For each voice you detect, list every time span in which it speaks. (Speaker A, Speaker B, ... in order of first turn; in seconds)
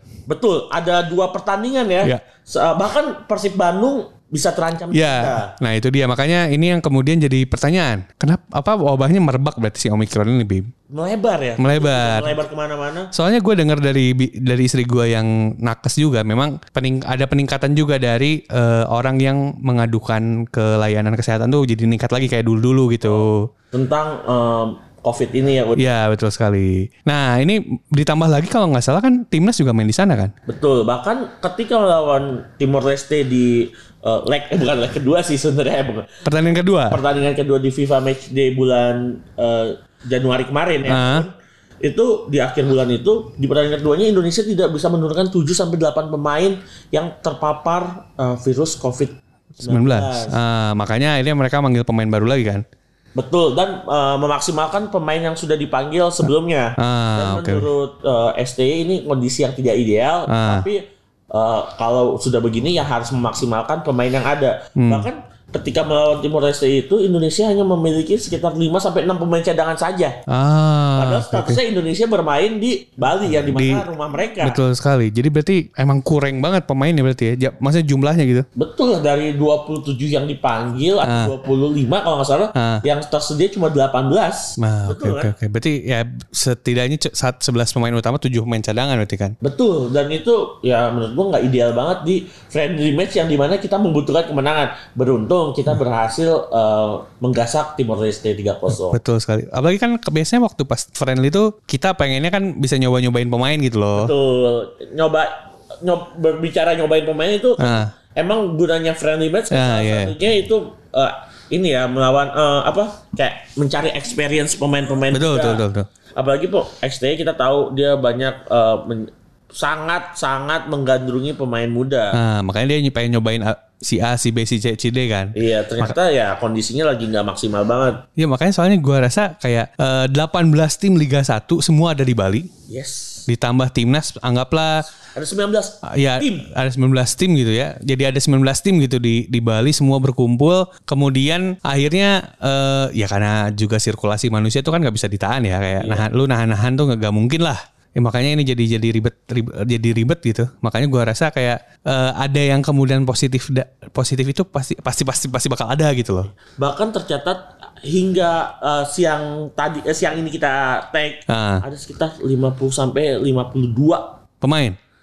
Speaker A: 0.3-5.5, 10.9-13.1, 23.0-25.9, 30.5-36.2, 36.9-41.3, 41.8-50.4, 53.2-60.8, 61.3-70.2, 71.0-74.6, 78.6-85.3, 89.4-99.0, 104.0-115.6, 116.2-122.2, 125.3-128.1, 132.7-133.3, 135.1-136.5, 145.8-146.1, 156.5-164.2
Speaker B: 4.9-10.7, 11.6-12.3, 13.1-23.5, 25.8-30.3, 36.2-37.0, 40.9-41.3, 49.6-52.6, 56.8-57.7, 60.3-60.6, 64.8-65.1, 70.3-71.6, 73.5-73.9, 74.4-78.5, 81.0-81.3, 82.5-82.8, 84.6-89.4, 98.8-104.1, 107.6-107.9, 109.5-110.1, 115.1-115.9, 122.1-126.0, 128.2-132.5, 133.3-134.9, 135.9-156.3, 161.3-161.6, 164.4-164.8